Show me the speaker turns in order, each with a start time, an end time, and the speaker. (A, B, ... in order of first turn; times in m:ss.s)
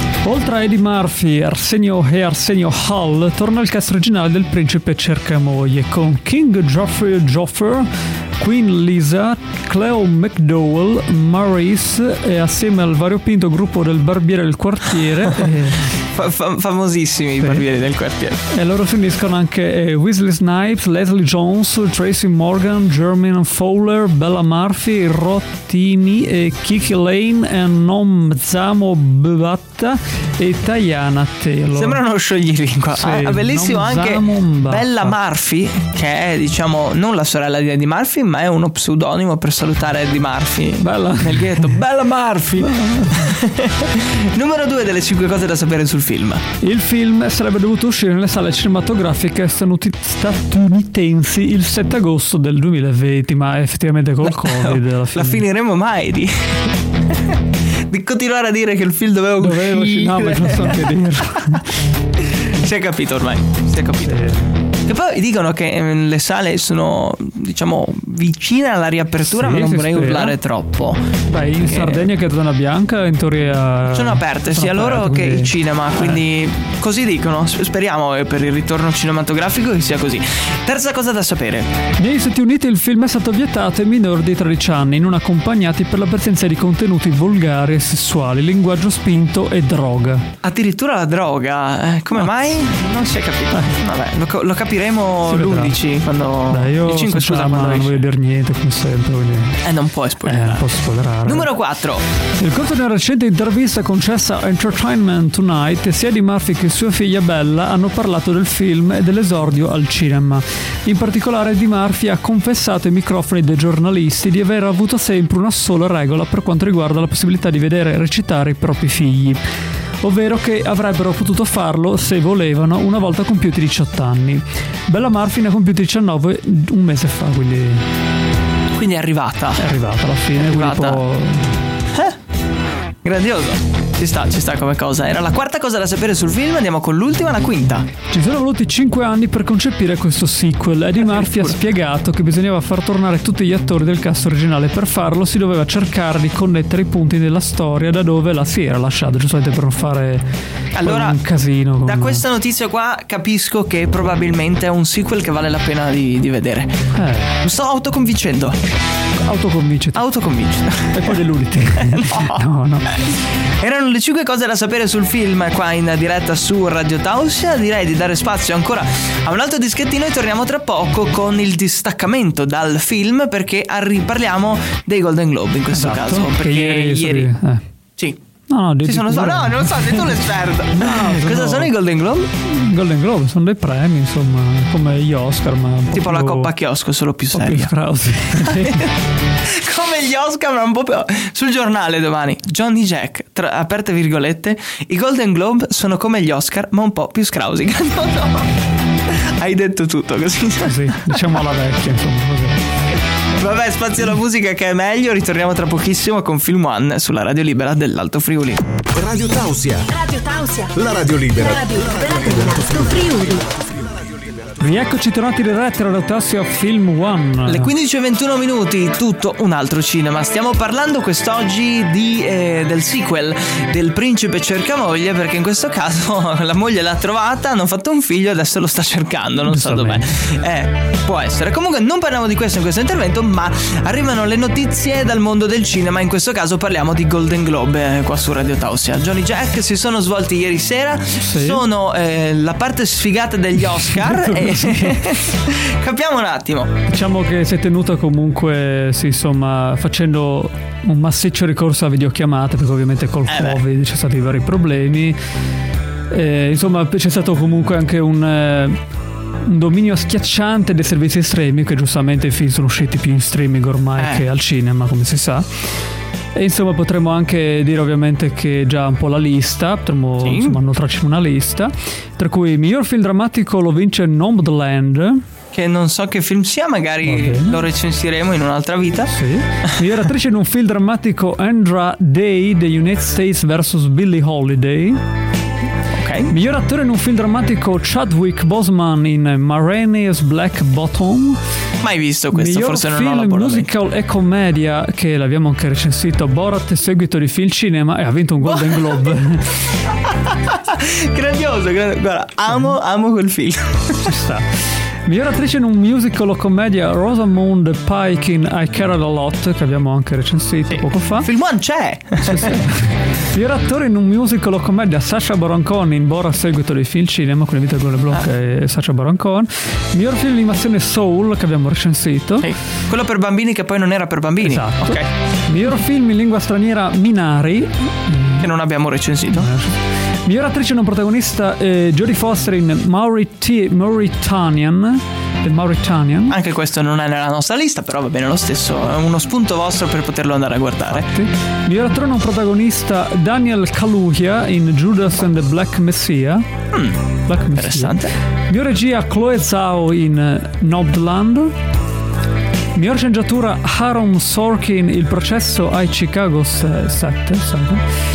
0:00.2-0:15.9 A
0:16.0-0:18.4 B
0:17.4-0:17.6 A
0:18.5-0:32.0 A
0:31.8-0:46.4 B
0:32.9-0:35.2 A
0:40.8-0:41.8 A
0:42.6-0:43.4 A
0:46.6-0:55.4 A
0:54.2-0:57.4 B
0:57.9-1:00.9 B
0:59.4-1:01.6 A
1:02.3-1:04.2 B
1:04.0-1:04.5 A
1:04.9-1:12.1 B
1:09.2-1:10.3 A
1:11.3-1:16.2 A
1:13.9-1:21.7 B
1:22.0-1:30.3 A
1:30.4-1:38.0 B
1:35.3-1:35.8 A
1:36.5-1:39.6 A
1:39.6-1:40.7 B
1:40.2-1:41.5 A
1:41.2-1:42.0 B
1:42.4-1:59.4 A
2:00.0-2:07.9 A
2:08.7-2:09.6 B
2:09.6-2:11.6 A
2:10.4-2:11.0 B
2:13.0-2:17.9 B
2:18.1-2:30.2 A
2:21.1-2:21.5 B
2:30.7-2:31.2 B
2:30.8-2:32.2 A
2:31.8-2:36.8 B
2:36.9-2:37.4 A
2:37.4-2:38.6 B
2:39.2-2:40.0 A
2:40.0-2:42.4 B
2:40.9-2:43.1 A
2:42.9-2:57.3 B
2:55.7-2:57.6 A
2:58.5-3:00.2 A
2:58.8-3:02.3 B
3:00.7-3:01.7 A
3:02.4-3:06.5 A
3:05.9-3:07.7 B
3:07.3-3:08.9 A
3:08.4-3:08.9 B
3:09.4-3:21.2 B
3:20.6-3:22.6 A
3:23.4-3:28.6 B
3:28.9-3:29.9 C
3:29.9-3:33.4 D
3:30.7-3:34.0 C
3:34.6-3:37.7 A
3:37.5-4:06.7 B
3:49.4-3:50.2 A
4:01.2-4:01.6 A
4:03.9-4:05.1 A
4:06.9-4:15.2 A
4:13.3-4:13.6 B
4:16.1-4:18.8 A
4:19.4-4:25.6 A
4:26.3-4:35.2 A
4:30.2-4:30.6 B
4:35.5-4:39.1 B
4:37.0-4:37.6 A
4:39.1-4:45.0 A
4:45.9-4:46.3 B
4:46.3-4:51.4 A
4:51.8-4:53.7 B
4:52.3-4:59.6 A
4:58.4-4:59.2 B
5:00.0-5:04.1 B
5:04.0-5:04.5 A
5:05.0-5:11.3 A
5:10.7-5:12.6 B
5:12.2-5:22.5 A
5:22.4-5:25.1 B
5:24.4-5:28.5 A
5:28.4-5:29.5 B
5:29.3-5:36.4 A
5:36.3-5:41.1 B
5:40.9-5:46.4 A
5:46.7-5:48.1 B
5:47.2-5:51.5 A
5:52.7-5:57.8 A